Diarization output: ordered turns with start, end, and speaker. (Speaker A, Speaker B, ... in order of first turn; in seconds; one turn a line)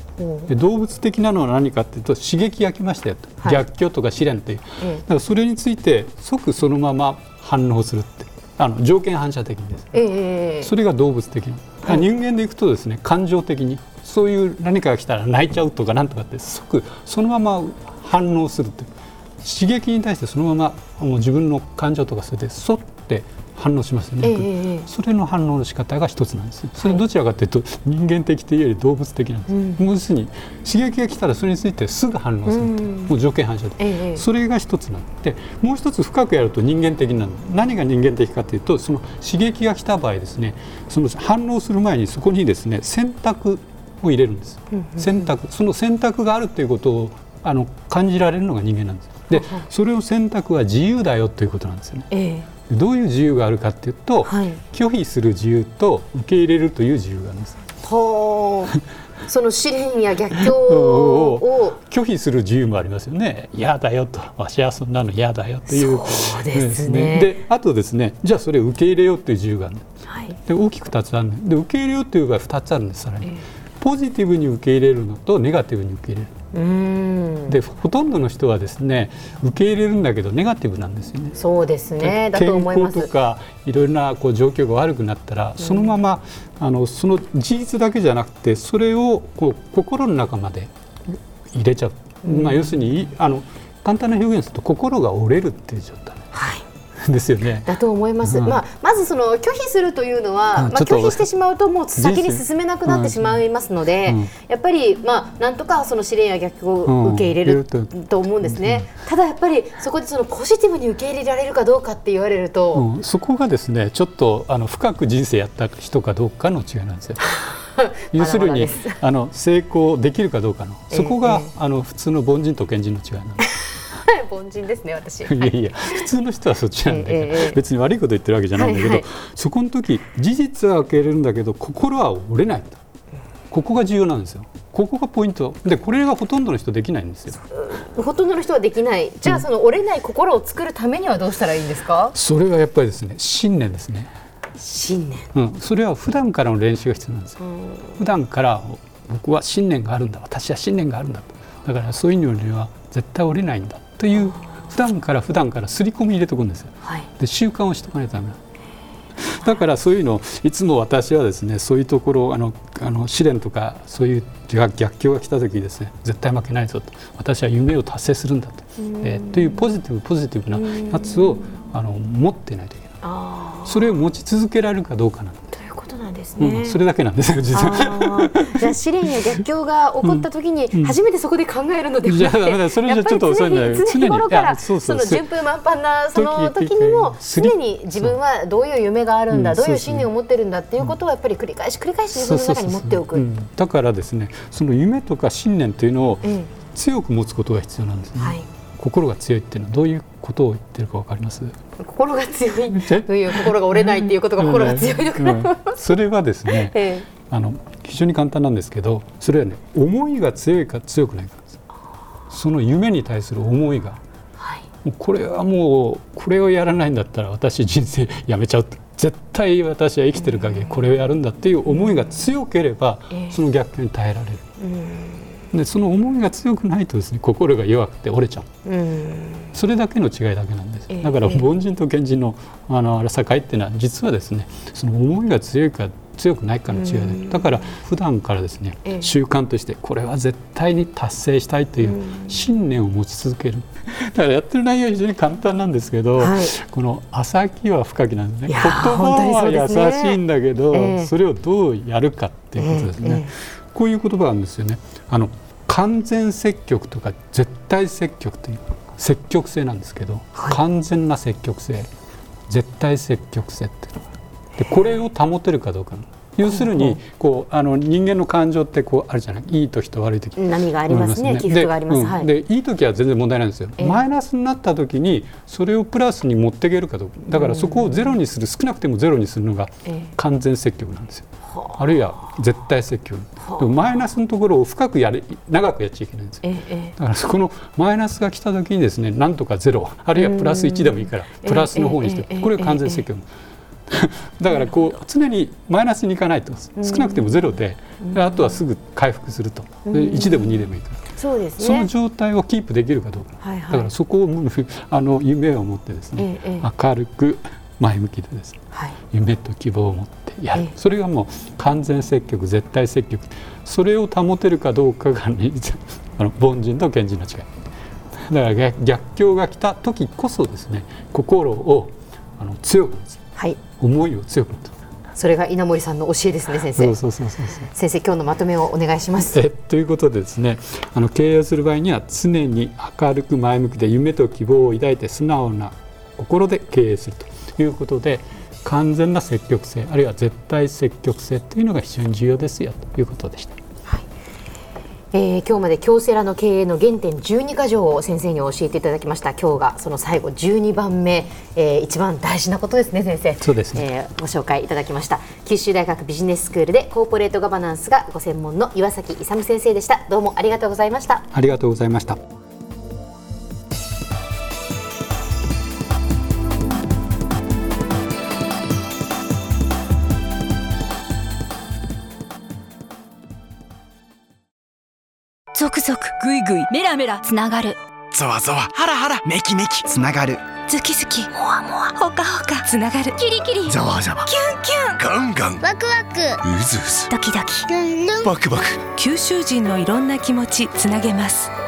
Speaker A: 0.2-0.5
Speaker B: 0.5-10.0
Speaker A: 9.9-10.7
Speaker B: 10.6-18.9
Speaker B: 19.4-52.1
Speaker A: 24.2-24.9
Speaker A: 29.5-29.8
Speaker A: 32.5-33.1
Speaker A: 33.8-34.2
Speaker A: 44.7-45.3
Speaker A: 49.3-49.6
Speaker A: 52.1-52.5
Speaker B: 52.7-57.6
Speaker A: 54.2-54.6
Speaker A: 57.8-61.8
Speaker B: 60.4-69.8
Speaker A: 65.7-67.4
Speaker A: 70.1-70.3
Speaker B: 70.5-76.3
Speaker A: 76.5-77.6
Speaker B: 77.5-81.4
Speaker A: 81.4-83.1
Speaker B: 82.0-96.3
Speaker A: 85.6-85.9
Speaker A: 92.2-92.7
Speaker A: 96.3-96.6
Speaker B: 97.0-98.6
Speaker A: 97.7-112.8
Speaker B: 100.5-101.2
Speaker B: 102.0-103.4
Speaker B: 104.0-104.3
Speaker B: 106.8-108.9
Speaker B: 112.7-117.3
Speaker A: 117.3-119.0
Speaker B: 118.1-123.5
Speaker A: 120.9-121.5
Speaker A: 123.5-126.0
Speaker B: 125.2-132.8
Speaker A: 126.8-127.6
Speaker A: 128.5-129.0
Speaker B: 133.5-137.4
Speaker A: 137.5-142.1
Speaker B: 142.1-144.1
Speaker A: 144.6-145.3
Speaker B: 145.3-158.4
Speaker B: 159.2-172.9
Speaker A: 168.8-169.7
Speaker A: 170.6-171.4
Speaker A: 173.0-173.9
Speaker B: 173.7-175.5
Speaker A: 175.5-176.8
Speaker B: 176.4-178.7
Speaker A: 177.5-193.2
Speaker B: 180.0-180.9
Speaker B: 182.0-185.2
Speaker B: 186.1-188.2
Speaker B: 189.3-190.1
Speaker B: 192.1-201.5
Speaker A: 196.2-196.5
Speaker A: 198.2-198.4
Speaker A: 201.8-205.8
Speaker B: 202.7-211.5
Speaker A: 206.5-207.1
Speaker B: 212.3-214.0
Speaker A: 214.4-214.6
Speaker B: 214.8-224.4
Speaker A: 224.6-225.3
Speaker B: 225.5-228.5
Speaker A: 228.6-229.5
Speaker B: 229.5-261.9
Speaker A: 230.9-231.4
Speaker A: 236.7-237.5
Speaker A: 241.8-242.3
Speaker A: 246.2-246.5
Speaker A: 248.5-250.2
Speaker A: 250.7-251.1
Speaker A: 252.6-253.3
Speaker A: 260.3-260.6
Speaker B: 262.5-286.4
Speaker A: 266.4-267.0
Speaker A: 270.4-272.3
Speaker A: 277.3-278.1
Speaker A: 281.5-281.8
Speaker A: 283.4-283.9
Speaker A: 286.4-286.9
Speaker B: 286.9-293.3
Speaker A: 290.1-293.0
Speaker B: 293.9-301.0
Speaker A: 296.8-297.3
Speaker A: 298.0-298.6
Speaker A: 299.9-300.6
Speaker A: 301.2-301.9
Speaker B: 301.6-308.6
Speaker A: 303.4-303.9
Speaker A: 306.2-306.7
Speaker B: 309.1-317.5
Speaker B: 318.2-323.2
Speaker B: 323.8-324.7
Speaker A: 325.1-326.9
Speaker B: 326.7-327.7
Speaker A: 327.5-329.4
Speaker B: 329.3-343.6
Speaker A: 345.1-361.3
Speaker B: 353.4-353.8
Speaker B: 361.3-362.2
Speaker C: 375.5-377.8
Speaker D: 378.1-380.4
Speaker C: 380.7-385.0
Speaker D: 383.7-384.3
Speaker D: 385.0-387.1
Speaker C: 387.1-387.7
Speaker D: 387.7-388.8
Speaker C: 388.9-391.5